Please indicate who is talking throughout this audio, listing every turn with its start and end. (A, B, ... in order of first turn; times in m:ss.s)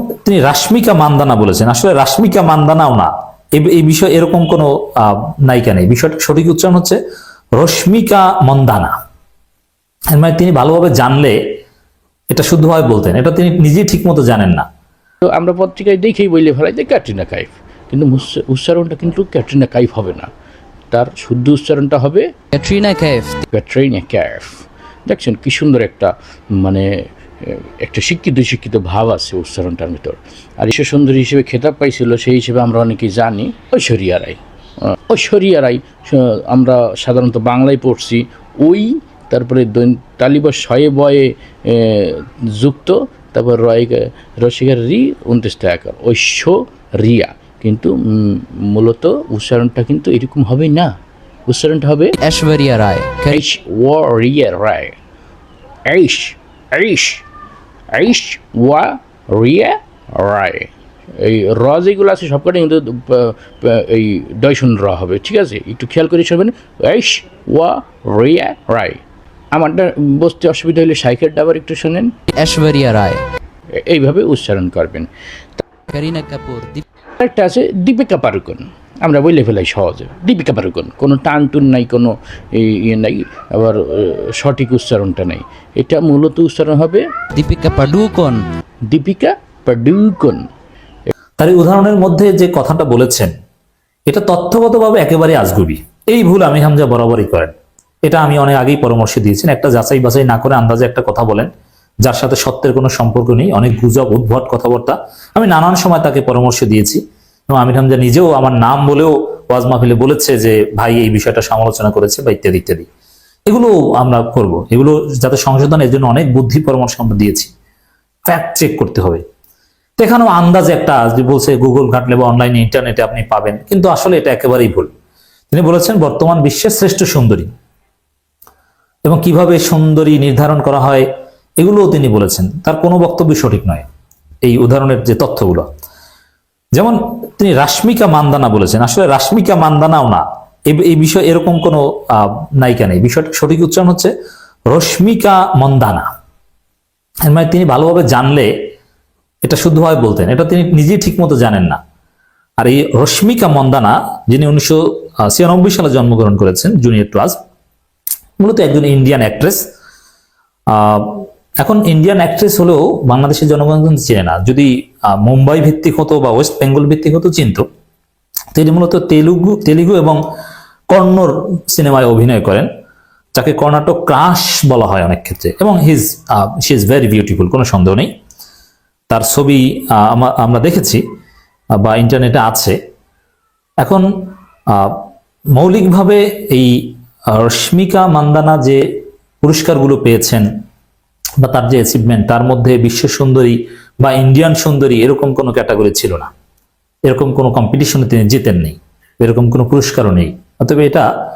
0:00.2-0:07.0 A
0:07.6-0:08.9 A
0:10.2-0:11.4 A
0:12.3-0:14.6 A
0:15.2-0:20.3 B
0:20.9-0:22.3 B
0:22.5-0:23.4 C
0:23.5-0:50.9 B
0:51.5-0:52.2 B
0:52.2-0:53.4 C
0:53.3-0:55.0 B
0:55.9-0:57.2 B
0:57.9-1:09.0 B
1:09.5-1:12.2 B
1:12.3-1:13.2 C
1:13.7-1:15.6 B
1:15.9-1:16.8 C
1:17.2-1:27.1 B
1:27.4-1:28.4 C
1:28.9-1:30.4 B
1:31.4-1:33.3 A
1:34.1-1:37.5 A
1:38.0-1:41.5 A
1:42.0-1:52.9 A
1:53.5-1:57.5 A
1:58.3-1:59.2 A
2:00.0-2:04.9 A
2:05.5-2:07.5 A
2:09.0-2:11.1 A
2:11.6-2:13.8 A
2:14.4-2:15.7 A
2:16.8-2:24.1 A
2:24.7-2:26.1 A
2:27.3-2:28.5 A
2:29.4-2:31.8 A
2:32.6-2:37.4 A
2:38.4-2:39.6 A
2:40.7-2:47.6 A
2:48.6-2:50.2 A
2:50.9-2:52.7 A
2:53.4-2:58.1 A
2:59.1-3:01.0 A
3:01.8-3:02.8 A
3:04.7-3:05.0 A
3:05.6-3:06.7 A
3:07.3-3:08.8 A
3:09.4-3:10.5 A
3:11.4-3:16.3 A
3:17.1-3:21.1 A